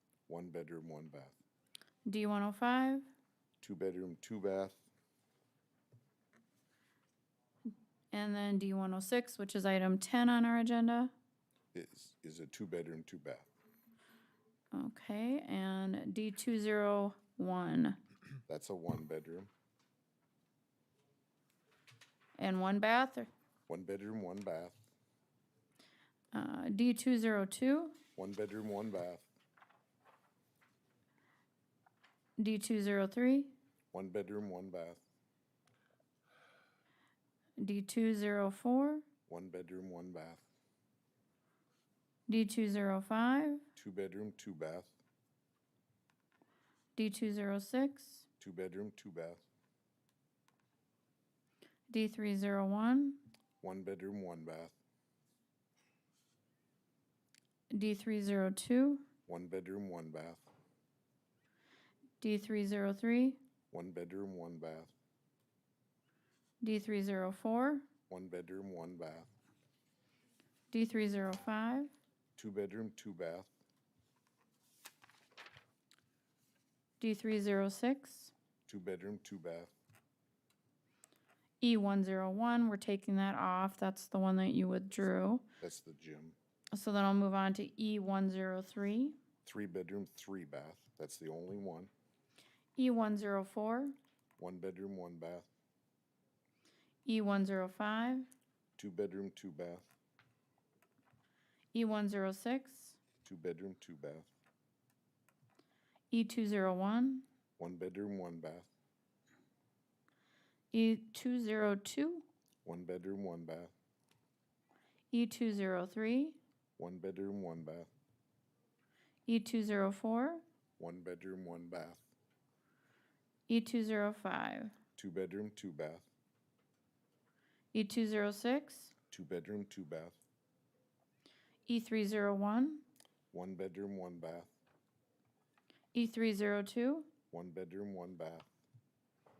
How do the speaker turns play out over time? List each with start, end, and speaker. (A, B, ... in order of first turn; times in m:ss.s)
0:00.3-0:01.4 A
0:02.0-0:03.0 B
0:03.6-0:04.8 A
0:08.1-0:11.1 B
0:11.7-0:13.5 A
0:14.7-0:18.0 B
0:18.5-0:19.5 A
0:22.4-0:23.3 B
0:23.7-0:24.8 A
0:26.3-0:28.0 B
0:28.2-0:29.2 A
0:32.4-0:33.5 B
0:33.9-0:35.0 A
0:37.6-0:39.0 B
0:39.3-0:40.4 A
0:42.3-0:43.6 B
0:43.8-0:44.9 A
0:47.0-0:48.2 B
0:48.4-0:49.4 A
0:51.9-0:53.2 B
0:53.6-0:54.8 A
0:57.7-0:59.0 B
0:59.3-1:00.5 A
1:02.2-1:03.4 B
1:03.7-1:04.9 A
1:06.6-1:07.8 B
1:08.1-1:09.3 A
1:10.7-1:11.9 B
1:12.4-1:13.5 A
1:17.0-1:18.3 B
1:18.7-1:19.7 A
1:21.6-1:25.4 B
1:25.6-1:26.4 A
1:26.7-1:29.2 B
1:29.4-1:31.9 A
1:32.8-1:34.0 B
1:34.4-1:35.5 A
1:37.0-1:38.3 B
1:38.8-1:39.9 A
1:41.7-1:43.0 B
1:43.2-1:44.3 A
1:46.1-1:47.2 B
1:47.6-1:48.7 A
1:50.7-1:52.2 B
1:52.6-1:53.7 A
1:55.1-1:56.4 B
1:56.8-1:57.9 A
1:59.2-2:00.4 B
2:00.8-2:02.0 A
2:03.5-2:04.7 B
2:05.0-2:06.0 A
2:07.7-2:08.9 B
2:09.1-2:10.2 A
2:11.7-2:12.8 B
2:13.3-2:14.5 A
2:15.9-2:17.1 B
2:17.3-2:18.5 A